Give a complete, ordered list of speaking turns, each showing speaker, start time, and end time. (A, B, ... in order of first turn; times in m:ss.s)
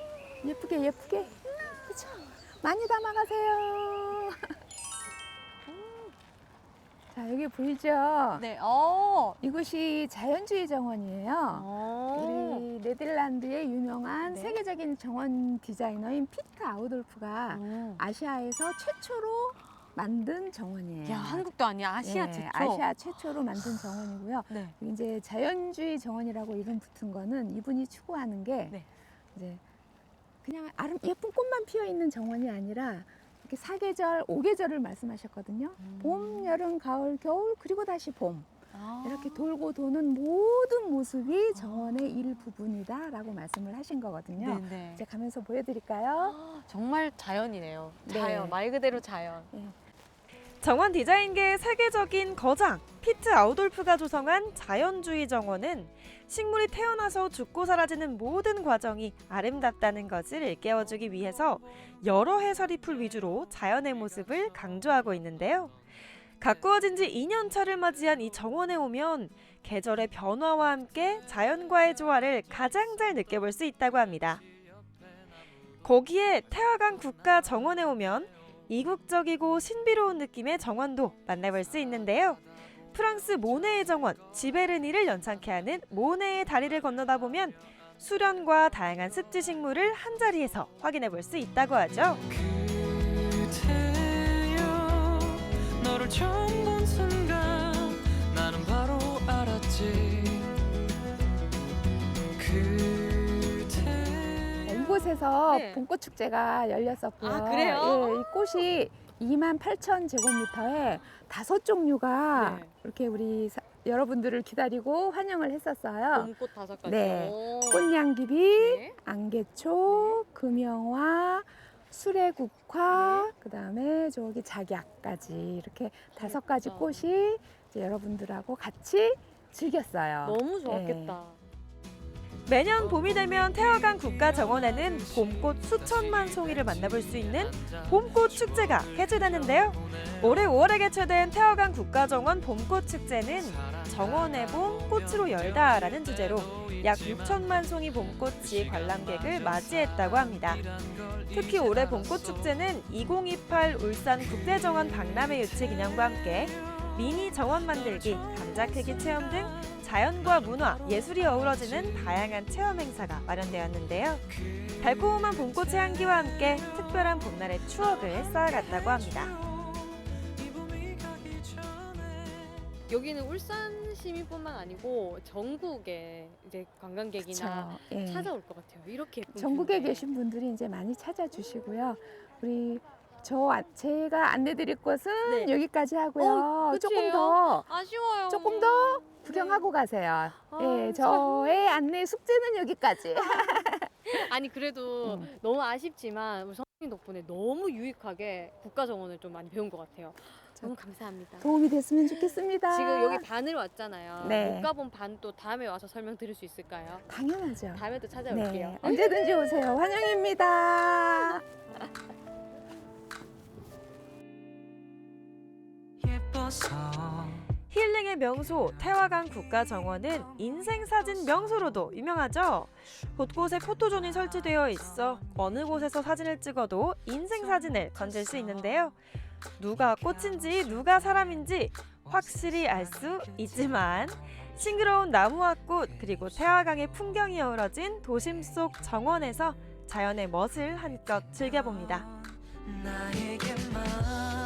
0:00.4-0:04.5 A
0:05.7-0:06.1 B
0:07.1-0:08.5 A
0:08.4-0:09.4 B
0:09.4-0:21.5 A
0:11.5-0:12.7 B
0:14.3-0:14.6 B
0:17.5-0:18.0 B
0:21.0-0:22.9 B
0:22.0-0:28.8 A
0:24.5-0:24.8 B
0:29.4-0:29.6 A
0:30.4-0:46.4 A
0:35.8-0:36.6 B
0:38.7-0:39.4 B
0:41.6-0:42.0 B
0:44.4-0:45.0 B
0:46.2-0:49.5 B
0:48.0-0:48.6 A
0:49.5-0:49.8 A
0:50.6-1:05.8 C
1:06.4-1:14.4 C
1:15.8-1:22.4 C
1:22.9-1:32.2 C
1:32.3-1:40.6 D
1:42.4-1:44.7 D
1:44.7-2:11.2 A
1:45.5-1:45.8 B
1:47.2-1:48.4 B
1:52.3-1:52.7 B
1:56.1-1:57.9 B
1:58.6-1:59.0 B
1:59.9-2:00.2 B
2:02.9-2:03.3 B
2:06.2-2:06.9 B
2:10.2-2:11.4 B
2:12.5-2:30.7 C
2:31.3-2:44.2 C
2:44.8-2:49.3 C
2:50.4-2:52.7 D
2:52.9-3:00.1 B
2:57.2-2:58.3 A
2:59.3-3:07.7 A
3:05.2-3:05.6 B
3:06.2-3:09.7 B
3:08.3-3:14.2 A
3:10.4-3:11.7 B
3:14.1-3:21.5 B
3:15.0-3:15.3 A
3:21.4-3:23.3 A
3:22.2-3:27.0 B
3:24.2-3:24.7 A
3:27.1-3:31.4 A
3:27.7-3:29.2 B
3:37.7-3:49.0 C
3:49.6-4:02.1 C
4:03.3-4:03.9 D